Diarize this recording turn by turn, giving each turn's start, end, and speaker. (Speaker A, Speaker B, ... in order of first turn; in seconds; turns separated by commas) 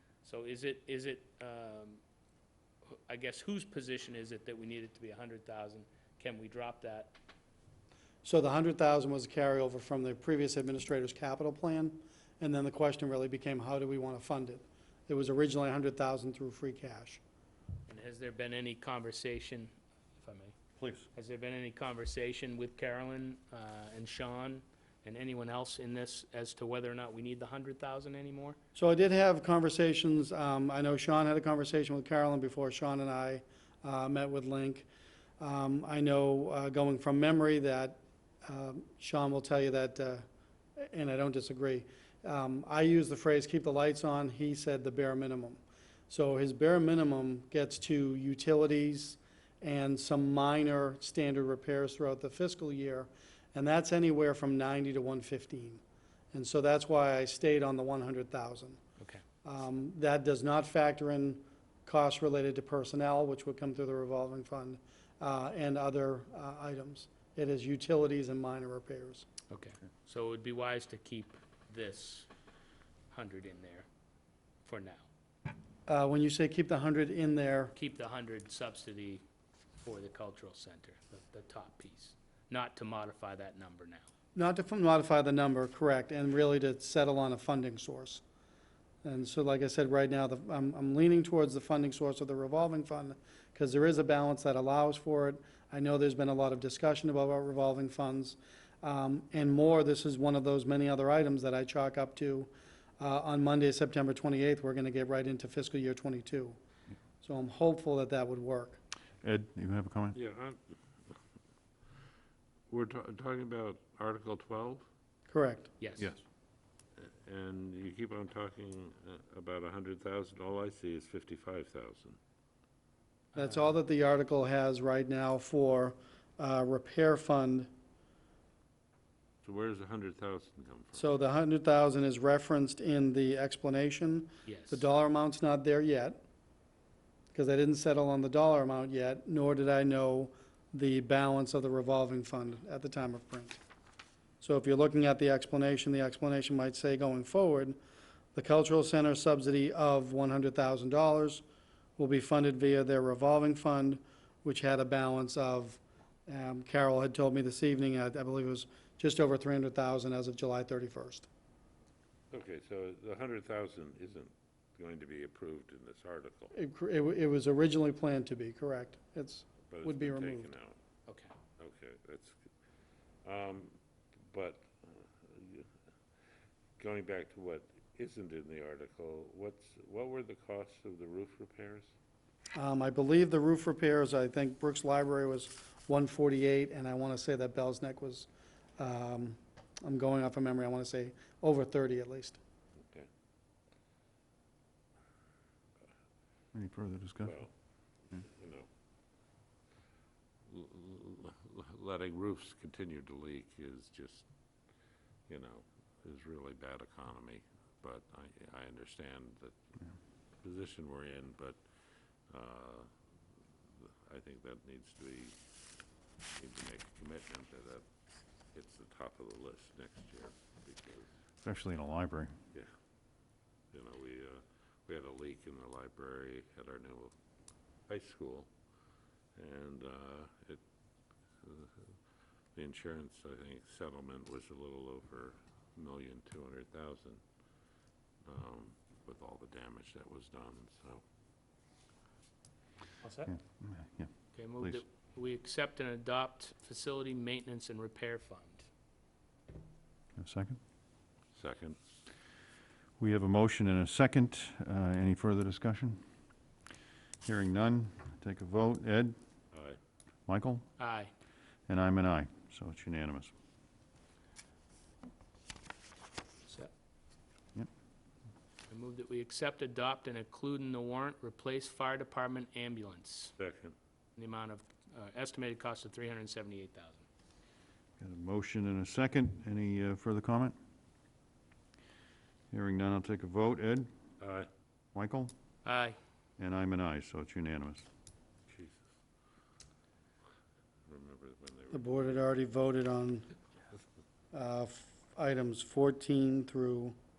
Speaker A: 0.2-2.0, Speaker A: 3.1-7.2, Speaker B: 8.2-17.2, Speaker A: 17.9-20.6, Speaker C: 20.8-21.1, Speaker A: 21.1-28.6, Speaker B: 28.8-34.9, Speaker B: 35.4-40.2, Speaker B: 40.8-55.8, Speaker B: 56.3-58.8, Speaker B: 59.4-69.3, Speaker A: 69.5-72.3, Speaker A: 73.1-73.9, Speaker A: 74.7-75.1, Speaker B: 75.9-77.7, Speaker A: 77.8-79.2, Speaker A: 79.8-84.1, Speaker B: 84.3-88.2, Speaker B: 89.0-106.6, Speaker B: 107.2-108.8, Speaker C: 109.2-110.2, Speaker D: 110.1-111.2, Speaker D: 112.7-114.9, Speaker B: 115.3-115.7, Speaker A: 115.8-116.1, Speaker D: 117.0-122.2, Speaker A: 123.3-123.7, Speaker B: 123.3-127.7, Speaker D: 129.4-131.1, Speaker B: 130.9-136.2, Speaker A: 134.5-134.8, Speaker B: 137.3-143.6, Speaker B: 144.4-147.8, Speaker B: 148.3-151.4, Speaker B: 152.0-161.3, Speaker D: 162.3-166.5, Speaker B: 166.5-170.5, Speaker D: 169.7-170.8, Speaker A: 171.1-171.3, Speaker D: 171.6-172.4, Speaker D: 173.2-175.7, Speaker D: 176.8-181.9, Speaker B: 182.6-192.4, Speaker C: 196.5-197.4, Speaker D: 197.2-197.5, Speaker D: 198.2-198.7, Speaker D: 200.5-204.3, Speaker D: 205.3-209.6, Speaker D: 210.4-211.6, Speaker D: 212.3-212.9, Speaker D: 213.8-215.4, Speaker D: 216.4-217.8, Speaker D: 218.5-221.1, Speaker C: 221.4-222.4, Speaker D: 223.7-227.1, Speaker D: 227.9-228.5, Speaker D: 229.3-230.6, Speaker D: 231.4-231.9, Speaker D: 232.6-237.2, Speaker D: 238.2-241.0, Speaker A: 243.0-243.3, Speaker C: 243.3-244.8, Speaker A: 244.3-248.7, Speaker C: 250.2-250.6, Speaker D: 251.3-251.8, Speaker C: 253.0-256.0, Speaker C: 257.2-259.2, Speaker D: 259.5-259.8, Speaker C: 260.3-260.7, Speaker A: 260.8-261.1, Speaker C: 261.7-263.3, Speaker A: 268.7-273.4, Speaker D: 273.4-273.8, Speaker A: 274.2-277.1, Speaker C: 278.0-280.6, Speaker C: 282.5-283.9, Speaker D: 284.2-284.5, Speaker C: 284.9-285.3, Speaker A: 285.6-286.0, Speaker C: 286.4-287.9, Speaker D: 288.5-288.8, Speaker D: 290.9-292.1, Speaker B: 291.7-293.3, Speaker B: 294.3-297.0